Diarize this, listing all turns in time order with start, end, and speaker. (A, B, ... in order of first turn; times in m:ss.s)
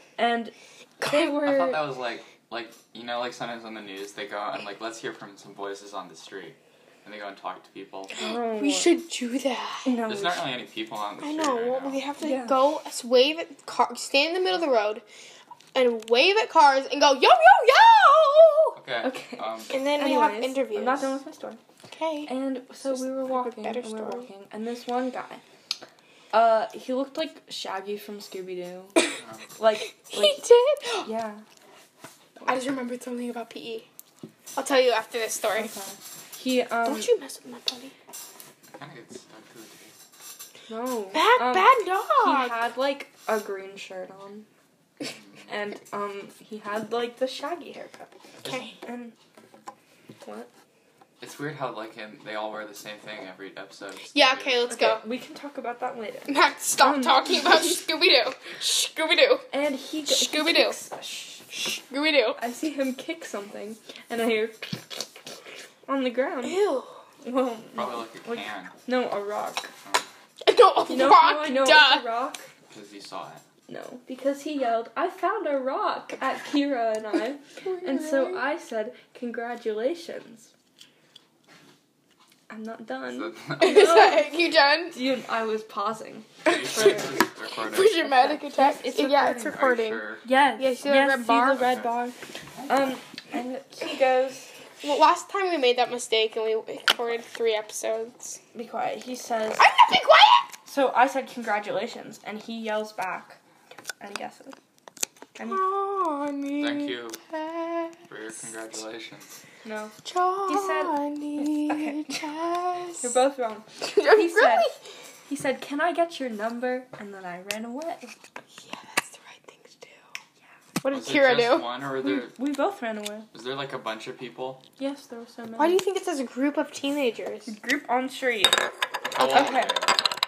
0:00.2-0:01.9 A
0:01.2-0:08.1 B
0:08.2-0:09.0 A
0:08.2-0:09.9 C
0:09.9-0:10.4 A
0:10.1-0:12.1 B
0:11.2-0:15.0 C
0:12.2-0:12.6 A
0:15.7-0:18.8 C
0:18.8-0:19.7 B
0:19.0-0:21.6 A
0:19.7-0:21.2 C
0:21.9-0:22.3 C
0:22.3-0:25.4 A
0:22.8-0:24.3 C
0:26.3-0:29.0 A
0:29.2-0:29.5 B
0:29.6-0:30.4 A
0:30.1-0:31.1 C
0:31.0-0:31.4 A
0:32.5-0:33.9 C
0:34.6-0:35.7 C
0:35.6-0:37.1 A
0:36.9-0:37.9 C
0:38.8-0:39.9 B
0:40.7-0:44.5 A
0:41.2-0:42.6 C
0:45.0-0:45.5 B
0:45.5-0:48.2 A
0:48.4-0:48.7 C
0:48.8-0:49.2 A
0:50.2-0:50.5 A
0:51.2-0:54.6 B
0:54.1-0:55.0 C
0:54.7-0:57.6 A
0:56.3-0:59.5 C
0:59.5-1:01.5 A
1:00.1-1:00.8 C
1:01.5-1:02.4 C
1:02.4-1:05.2 A
1:05.9-1:06.6 A
1:06.4-1:07.0 C
1:07.2-1:09.7 A
1:07.8-1:08.7 B
1:10.4-1:12.0 C
1:10.9-1:12.5 A
1:12.7-1:13.4 B
1:13.7-1:20.5 A
1:17.6-1:18.4 C
1:22.5-1:24.4 A
1:23.1-1:24.0 B
1:23.6-1:25.0 C
1:24.9-1:27.1 A
1:26.5-1:28.1 B
1:26.5-1:30.0 C
1:28.0-1:29.7 A
1:29.5-1:30.2 B
1:30.2-1:32.2 A
1:30.6-1:31.7 C
1:31.6-1:31.9 B
1:32.6-1:32.9 B
1:32.7-1:34.5 A
1:34.8-1:38.4 C
1:38.5-1:39.7 A
1:39.6-1:40.5 C
1:40.7-1:43.4 A
1:44.0-1:44.6 A
1:45.4-1:45.6 A
1:45.4-1:48.0 C
1:46.6-1:47.2 B
1:48.1-1:49.4 B
1:49.6-1:52.2 A
1:50.0-1:53.1 C
1:53.0-1:54.7 A
1:53.8-1:54.8 C
1:55.3-1:58.2 A
1:58.6-2:00.0 C
2:00.8-2:01.7 C
2:00.9-2:02.4 B
2:02.0-2:03.3 A
2:03.3-2:04.6 B
2:04.8-2:05.8 A
2:05.6-2:07.5 C
2:07.5-2:08.6 A
2:09.1-2:10.0 B
2:09.2-2:09.7 A
2:09.2-2:09.6 C